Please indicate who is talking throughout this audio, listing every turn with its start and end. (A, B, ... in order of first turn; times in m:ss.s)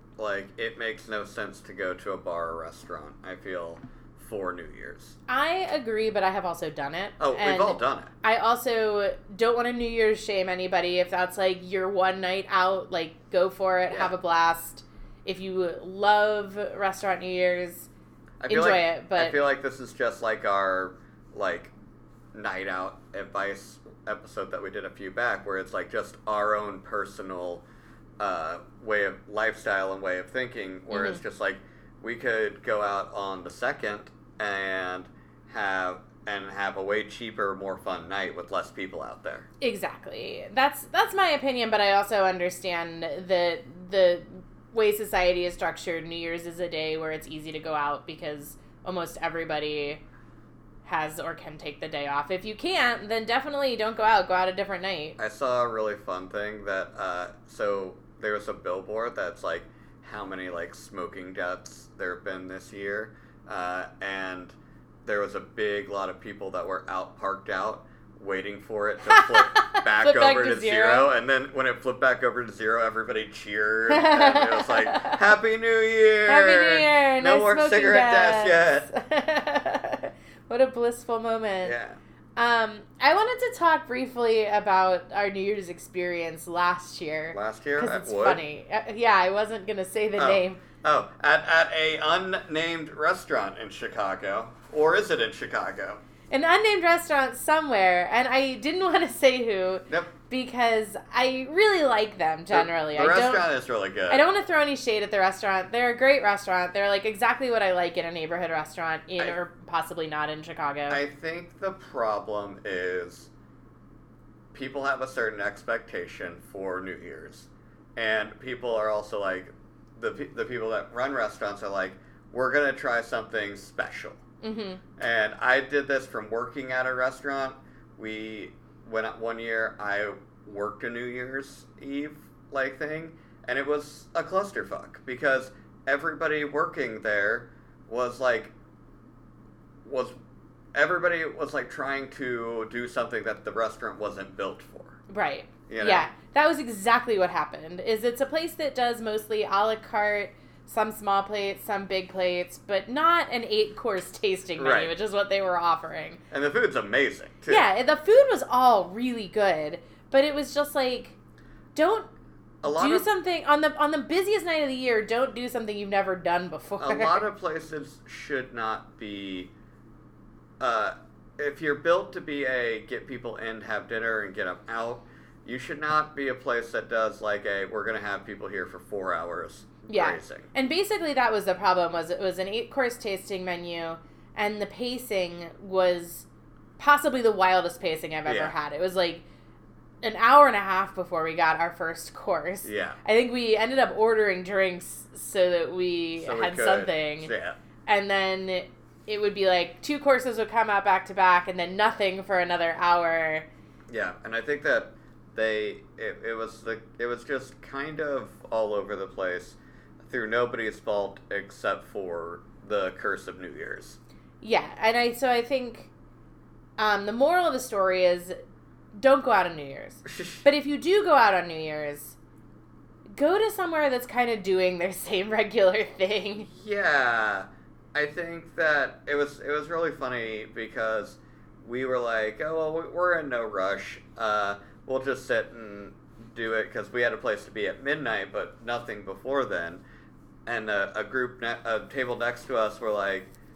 0:00.2-0:05.2 A
0:05.3-0:17.9 B
0:07.2-0:08.1 A
0:18.4-0:21.7 A
0:18.5-0:19.4 B
0:22.3-0:27.6 A
0:28.2-0:39.5 A
0:30.9-0:31.2 B
0:39.6-0:50.0 B
0:50.8-0:55.2 B
0:55.2-1:04.5 A
1:05.0-1:18.9 A
1:09.1-1:11.1 B
1:13.9-1:15.2 B
1:16.3-1:21.8 B
1:21.6-1:22.0 A
1:22.4-1:30.6 B
1:27.3-1:28.4 A
1:30.2-1:36.0 A
1:36.3-1:43.4 B
1:42.5-1:44.2 A
1:44.1-1:51.0 B
1:50.9-1:53.3 A
1:54.5-2:04.2 A
2:04.4-2:04.8 B
2:05.0-2:18.5 A
2:19.8-2:20.1 A
2:20.7-2:25.0 A
2:25.1-2:36.2 B
2:25.7-2:26.1 A
2:34.6-2:34.9 A
2:36.3-2:37.7 A
2:37.5-2:41.2 B
2:41.7-2:42.1 B
2:42.6-2:43.0 A
2:42.6-2:47.2 B
2:46.8-2:49.5 A
2:50.6-3:00.5 A
2:59.9-3:06.2 B
3:06.8-3:09.2 B
3:08.2-3:08.5 A
3:10.0-3:17.3 B
3:12.6-3:13.0 A
3:16.2-3:17.6 A
3:17.8-3:23.5 B
3:23.9-3:34.0 A
3:34.4-3:35.9 B
3:36.8-3:38.4 B
3:38.9-3:42.2 B
3:40.0-3:40.4 A
3:43.1-3:46.5 B
3:46.4-3:59.8 A
4:00.4-4:03.3 A